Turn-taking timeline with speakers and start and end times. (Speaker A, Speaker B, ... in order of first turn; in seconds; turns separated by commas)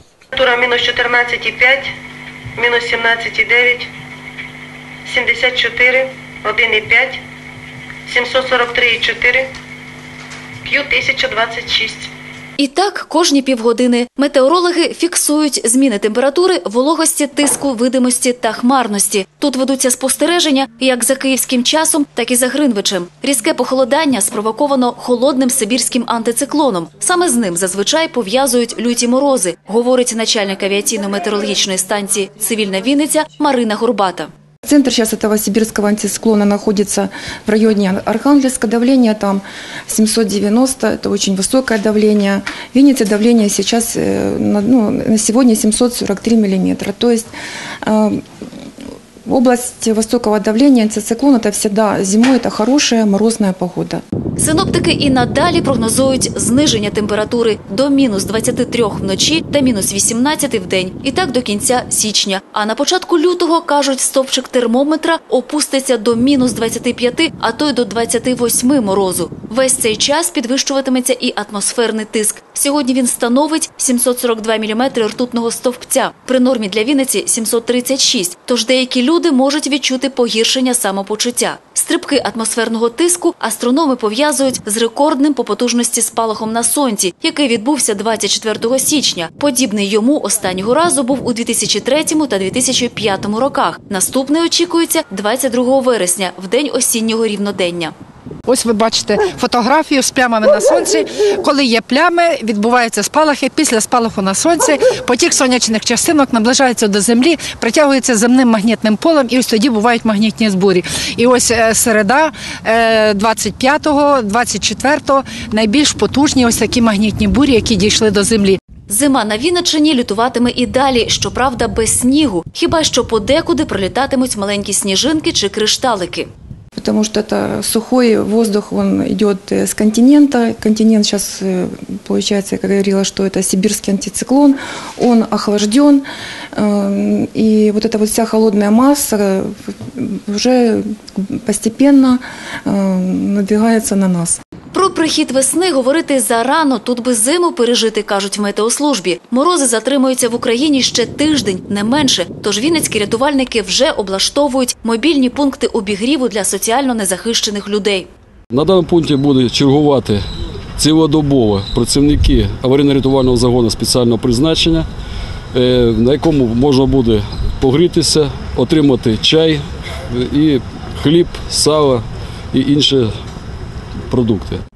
Speaker A: 0.3-1.9, Speaker A: 2.5-3.9, Speaker A: 5.0-7.2, Speaker A: 8.1-9.5, Speaker A: 10.7-12.1, Speaker B: 12.6-34.3, Speaker C: 34.6-47.3, Speaker C: 47.8-48.2, Speaker C: 49.3-54.0, Speaker B: 54.4-97.9, Speaker D: 98.5-118.6, Speaker B: 118.9-126.3, Speaker C: 126.8-136.0, Speaker C: 136.6-144.4, Speaker B: 144.7-158.1, Speaker E: 158.5-160.2, Speaker E: 160.8-164.9, Speaker E: 165.5-173.1, Speaker E: 174.1-174.6